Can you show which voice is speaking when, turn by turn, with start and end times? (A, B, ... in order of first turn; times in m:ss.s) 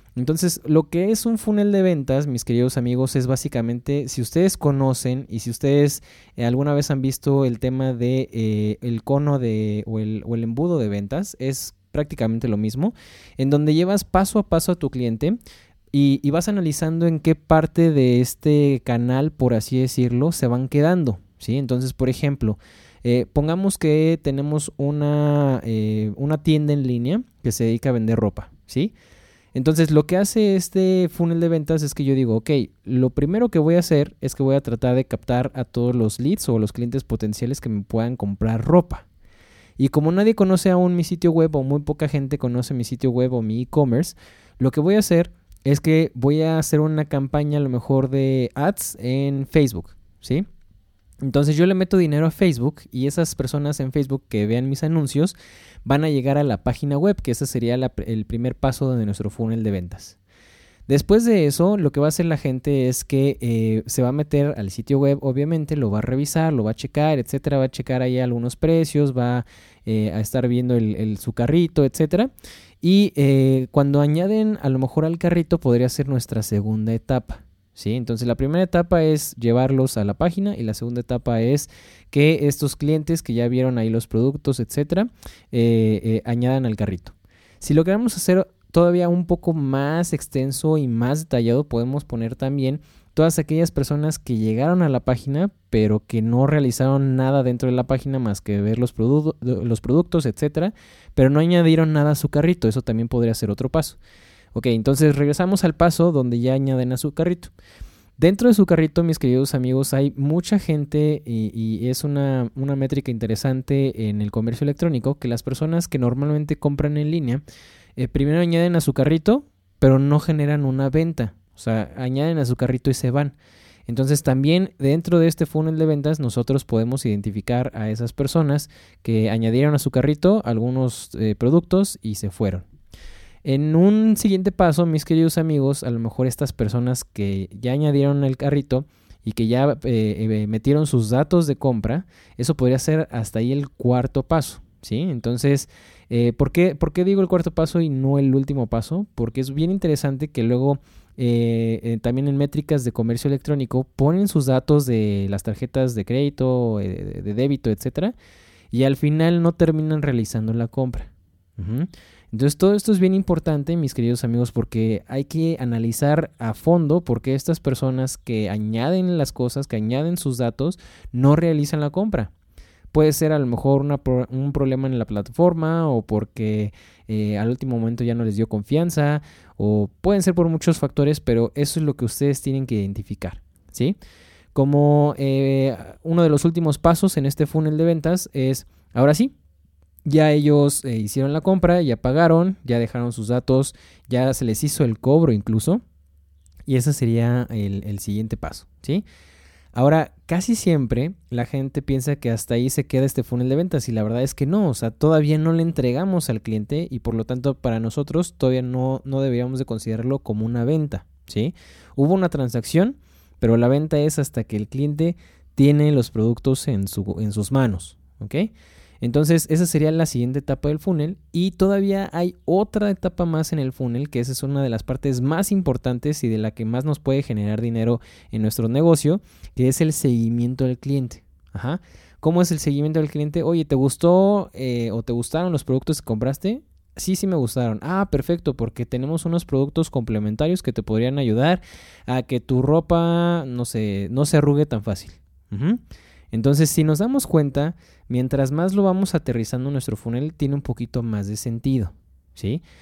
0:00.2-0:15.4 A
0:15.9-0:28.9 A
0:29.5-0:39.1 A
0:39.8-0:50.4 A
0:51.2-1:00.2 A
1:00.9-1:44.0 A
1:44.5-1:47.5 A
1:48.2-1:57.4 A
1:58.0-2:03.4 A
2:03.9-2:12.6 A
2:13.4-2:38.1 A
2:38.7-2:52.3 A
2:52.9-3:04.0 A
3:04.5-3:09.3 A
3:10.0-3:15.8 A
3:16.6-3:19.0 A
3:19.7-4:05.8 A
4:06.3-4:12.6 A